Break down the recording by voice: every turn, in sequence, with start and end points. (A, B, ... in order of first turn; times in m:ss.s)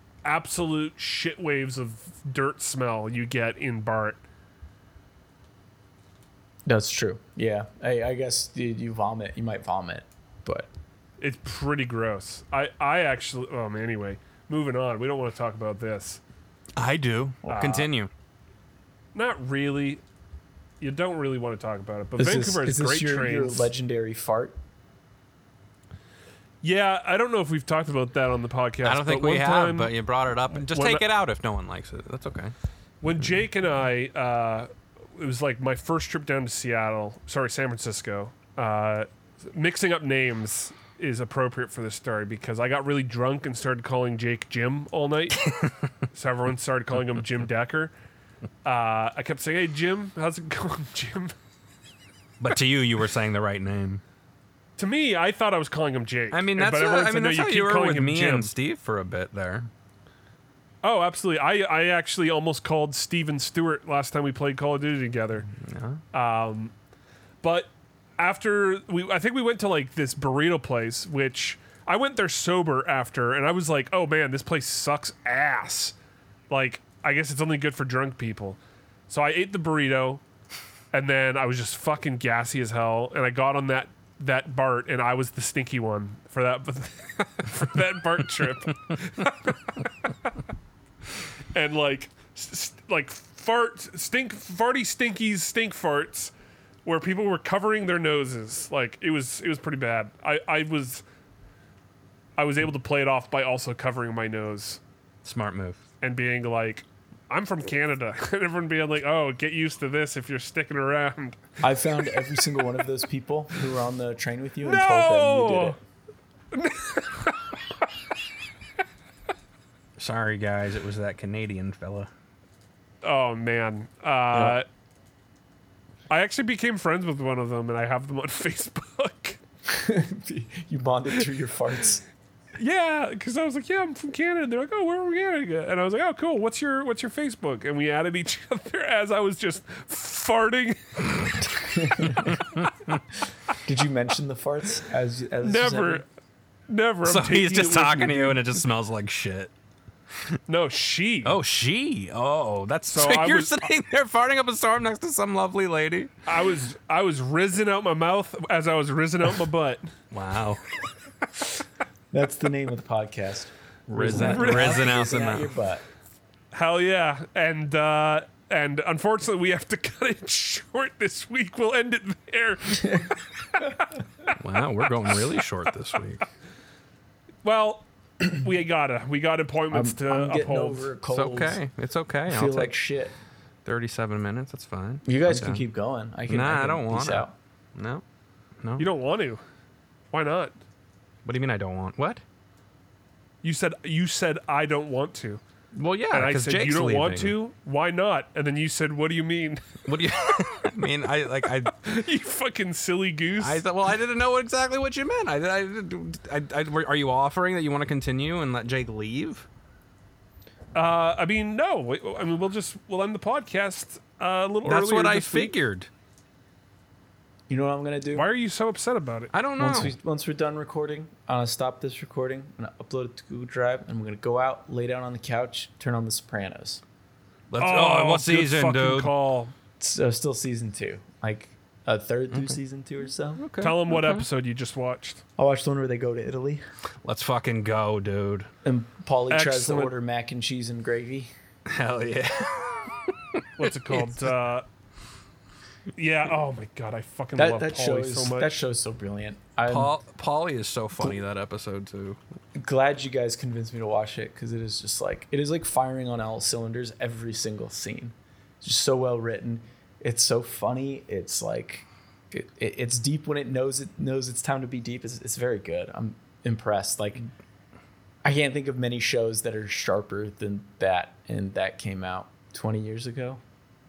0:00.2-0:04.2 A
0:06.6-0:10.7 B
0:11.2-0:16.2 A
0:16.8-0:18.1 C
0:17.5-0:17.9 A
0:19.1-0:20.0 A
0:20.8-0:23.7 A
0:22.2-0:24.6 B
0:26.6-0:30.0 A
0:28.8-0:32.5 C
0:30.5-0:31.0 A
0:33.0-0:45.4 A
0:46.1-0:47.9 A
0:48.6-0:51.3 A
0:52.4-0:54.0 C
0:54.8-0:58.5 A
0:56.3-0:59.7 C
1:00.8-1:05.5 A
1:05.6-1:06.0 C
1:06.1-1:06.7 A
1:07.4-1:15.9 A
1:16.5-1:18.6 A
1:19.1-1:20.2 A
1:20.9-1:29.9 A
1:31.5-1:36.3 A
1:36.8-1:41.0 A
1:42.4-1:44.8 A
1:45.2-1:45.8 C
1:46.0-1:51.4 A
1:51.6-1:55.8 B
1:54.6-1:55.8 A
1:56.5-1:57.5 A
2:00.0-2:02.1 C
2:03.0-2:04.6 A
2:06.1-2:09.4 A
2:09.7-2:12.0 B
2:12.6-2:21.3 A
2:21.7-2:22.3 B
2:22.6-2:23.0 C
2:23.5-2:26.0 B
2:25.4-2:26.0 A
2:26.7-2:28.6 A
2:27.0-2:29.5 C
2:30.5-2:31.4 A
2:31.2-2:36.1 C
2:32.9-2:33.6 A
2:36.2-2:39.9 A
2:40.1-2:40.6 C
2:42.1-2:45.8 B
2:43.9-2:45.5 C
2:44.1-2:44.8 A
2:46.5-2:53.0 A
2:54.4-2:56.2 C
2:57.4-3:00.9 A
2:59.7-3:01.6 B
3:01.1-3:02.7 C
3:02.3-3:03.1 B
3:03.6-3:05.6 C
3:05.0-3:07.3 B
3:06.3-3:08.0 C
3:08.6-3:08.9 C
3:08.8-3:09.4 A
3:10.1-3:10.6 A
3:11.2-3:12.2 C
3:13.4-3:15.4 A
3:15.7-3:17.4 C
3:16.1-3:19.6 A
3:19.8-3:21.8 C
3:21.7-3:23.6 A
3:23.4-3:29.5 C
3:30.7-3:35.6 A
3:34.6-3:35.9 C
3:37.5-3:38.3 B
3:38.1-3:39.3 A
3:39.3-3:39.9 C
3:39.6-3:46.8 B
3:47.5-3:49.1 C
3:47.6-3:49.5 A
3:49.8-3:53.4 B
3:52.3-3:52.6 C
3:53.4-3:54.3 C
3:53.6-3:55.2 A
3:55.4-3:56.6 B
3:57.0-3:58.5 C
3:58.6-4:01.3 B
3:59.3-3:59.9 A
4:01.7-4:04.1 C
4:03.6-4:04.6 A
4:06.0-4:08.5 A
4:07.4-4:10.0 B
4:09.6-4:12.2 C
4:12.6-4:27.3 B
4:28.2-4:33.4 B